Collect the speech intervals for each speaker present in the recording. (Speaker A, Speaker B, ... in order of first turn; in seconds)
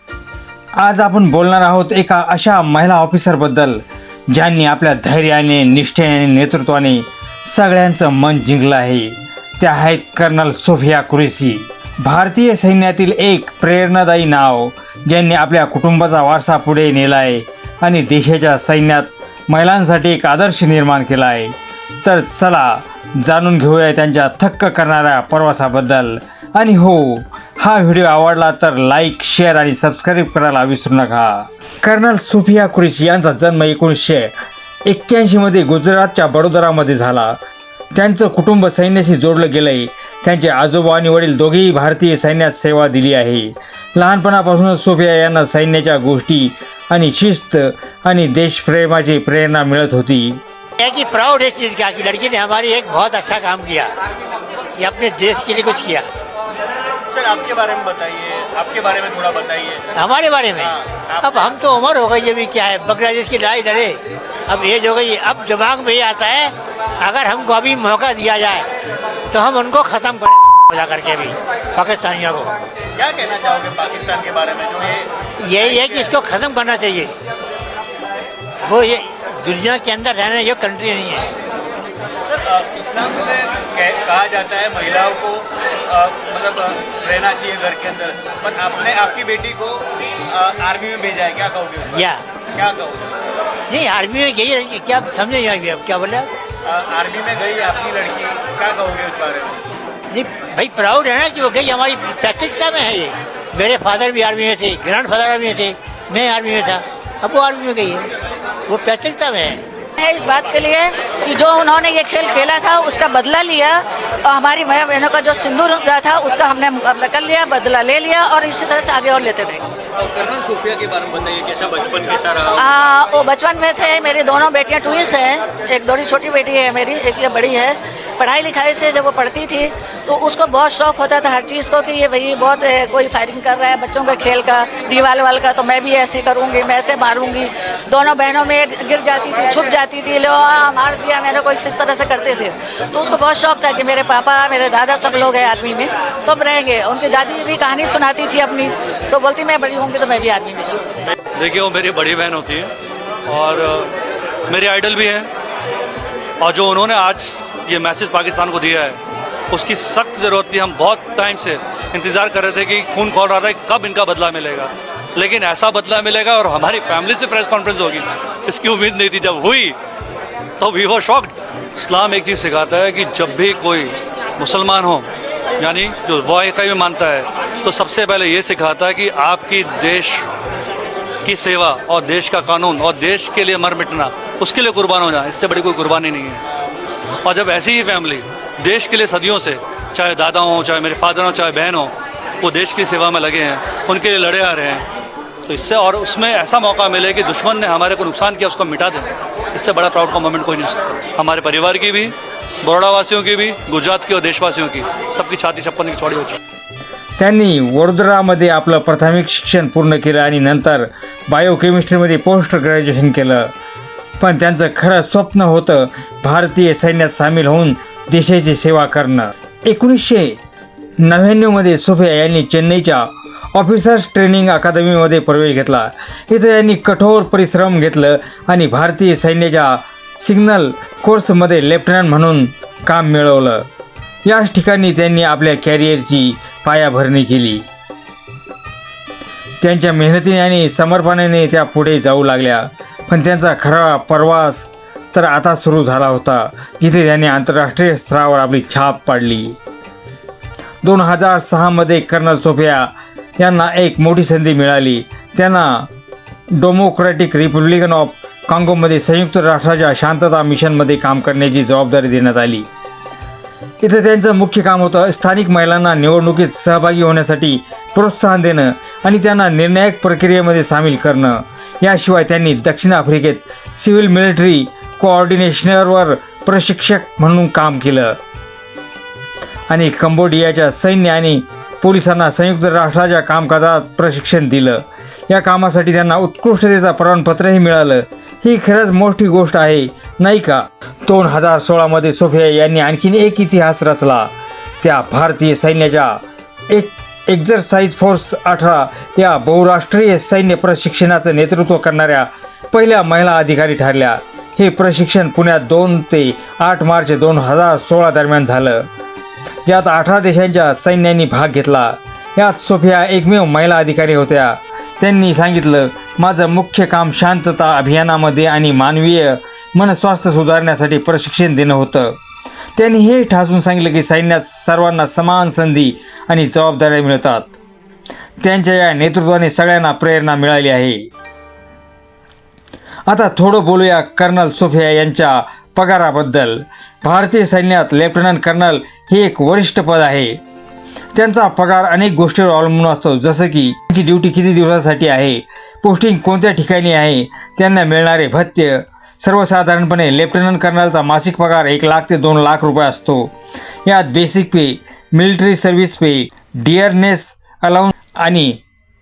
Speaker A: 0.8-3.8, 4.3-34.3, 34.9-37.4, 37.9-50.4, 207.2-213.5, 214.2-220.4, 221.0-233.7, 234.2-237.6, 239.6-249.6, 250.8-255.9, 256.6-262.7, 263.8-278.2, 279.7-294.3, 294.8-308.9, 309.6-322.1, 322.8-327.6, 328.4-331.1, 333.1-340.4, 341.1-353.3, 353.9-358.6
Speaker B: 50.8-53.9, 54.8-56.0, 59.9-68.7, 69.3-72.5, 75.4-77.1, 78.7-81.3, 91.9-92.2, 93.7-96.3, 100.1-108.1, 108.7-109.6
Speaker C: 57.1-59.8, 60.6-61.5, 73.0-76.1, 82.3-93.1, 96.6-99.6, 120.0-122.6
Speaker D: 110.0-119.7, 122.5-150.9
Speaker E: 151.3-152.7, 153.3-153.9, 154.5-155.3, 156.4-169.8, 170.6-180.2, 181.2-186.4, 187.2-194.9, 195.5-206.4